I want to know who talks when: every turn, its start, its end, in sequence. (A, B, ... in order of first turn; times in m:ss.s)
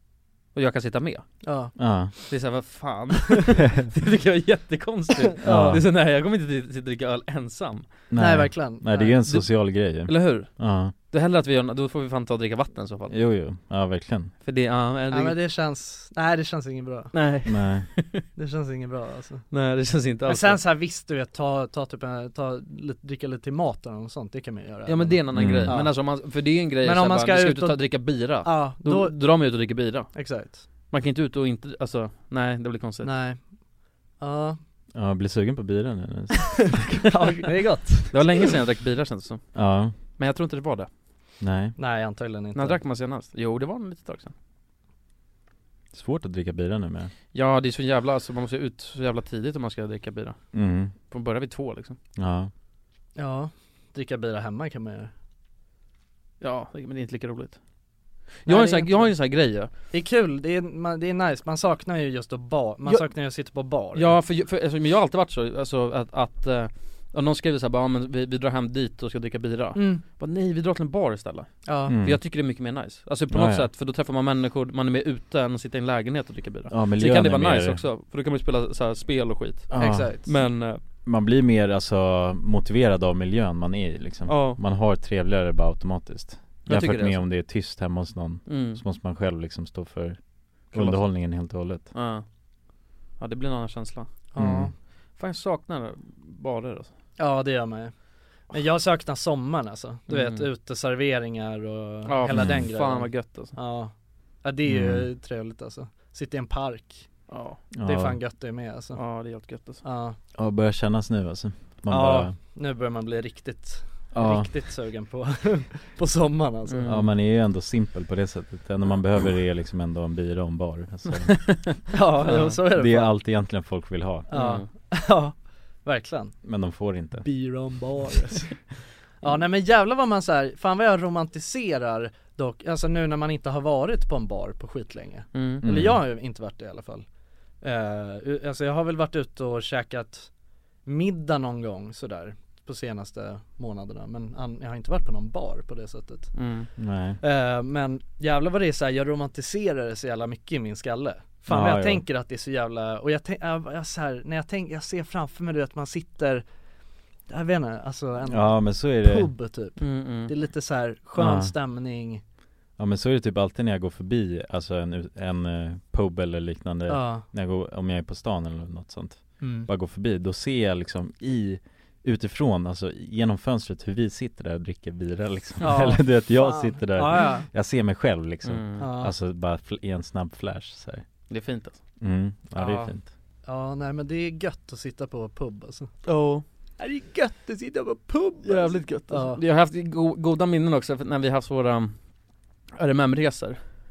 0:00.5-0:01.3 A
0:01.4-0:02.3 B
0:01.7-0:02.1 C
0:02.3-0:08.0 A
0:05.2-0:05.8 B
0:05.4-0:05.9 C
0:08.1-0:10.9 C
0:08.1-0:09.3 B
0:09.2-0:13.2 A
0:13.1-0:14.3 C
0:14.4-0:15.4 A
0:15.1-0:17.2 B
0:17.1-0:18.2 A
0:17.4-0:17.9 C
0:18.4-0:19.4 B
0:19.5-0:20.6 A
0:20.2-0:30.6 B
0:24.8-0:33.1 A
0:25.3-0:25.8 C
0:33.0-0:33.4 B
0:34.2-0:34.6 B
0:34.9-0:37.0 C
0:36.4-0:38.5 B
0:38.1-0:40.9 A
0:39.5-0:39.9 C
0:41.4-0:41.8 C
0:41.8-0:42.8 B
0:42.5-0:44.3 A
0:45.9-0:47.1 C
0:47.3-0:50.4 A
0:50.5-0:50.9 C
0:51.1-0:52.0 A
0:52.2-0:52.5 C
0:53.2-0:55.1 B
0:56.4-0:57.6 A
0:58.4-0:59.7 A
0:58.4-1:04.2 B
1:03.9-1:20.8 A
1:09.7-1:10.0 B
1:11.6-1:11.9 B
1:11.9-1:12.2 C
1:13.3-1:13.7 C
1:16.7-1:17.8 C
1:19.7-1:20.2 C
1:19.8-1:20.3 B
1:21.0-1:31.9 C
1:24.3-1:24.6 A
1:26.6-1:27.2 A
1:28.5-1:28.8 A
1:30.7-1:31.0 A
1:31.9-1:32.2 A
1:33.2-1:34.1 A
1:34.3-1:34.7 B
1:34.4-1:34.7 C
1:35.1-1:36.9 A
1:37.2-1:37.9 B
1:38.5-1:47.1 B
1:40.1-1:40.5 A
1:42.0-1:43.6 A
1:42.3-1:42.7 C
1:44.6-1:45.1 C
1:47.3-1:47.6 A
1:47.7-1:48.3 C
1:47.8-1:49.0 B
1:48.9-1:49.8 A
1:49.8-1:50.2 B
1:50.3-1:52.4 C
1:51.9-1:57.1 B
1:54.1-1:54.6 C
1:56.7-1:57.1 A
1:56.8-2:01.7 C
2:01.2-2:02.6 A
2:01.9-2:03.2 B
2:02.6-2:04.3 C
2:04.3-2:06.3 B
2:04.3-2:04.7 A
2:06.4-2:07.8 C
2:07.2-2:08.6 B
2:09.2-2:17.0 B
2:15.3-2:15.6 A
2:15.6-2:16.0 C
2:17.6-2:20.3 B
2:20.8-2:26.5 B
2:26.3-2:26.7 A
2:26.8-2:27.2 C
2:27.2-2:36.4 B
2:31.4-2:32.0 C
2:37.3-2:42.2 B
2:38.2-2:39.3 C
2:39.8-2:40.3 A
2:41.2-2:41.5 C
2:42.8-3:01.0 C
2:46.9-2:47.3 B
2:49.4-2:49.7 B
2:55.6-2:57.5 B
2:58.4-2:58.9 A
2:58.8-2:59.1 B
3:01.3-3:01.8 A
3:02.0-3:03.1 C
3:02.6-3:02.9 B
3:03.4-3:05.9 B
3:06.0-3:06.4 A
3:06.8-3:09.4 B
3:08.4-3:12.0 A
3:12.8-3:13.6 A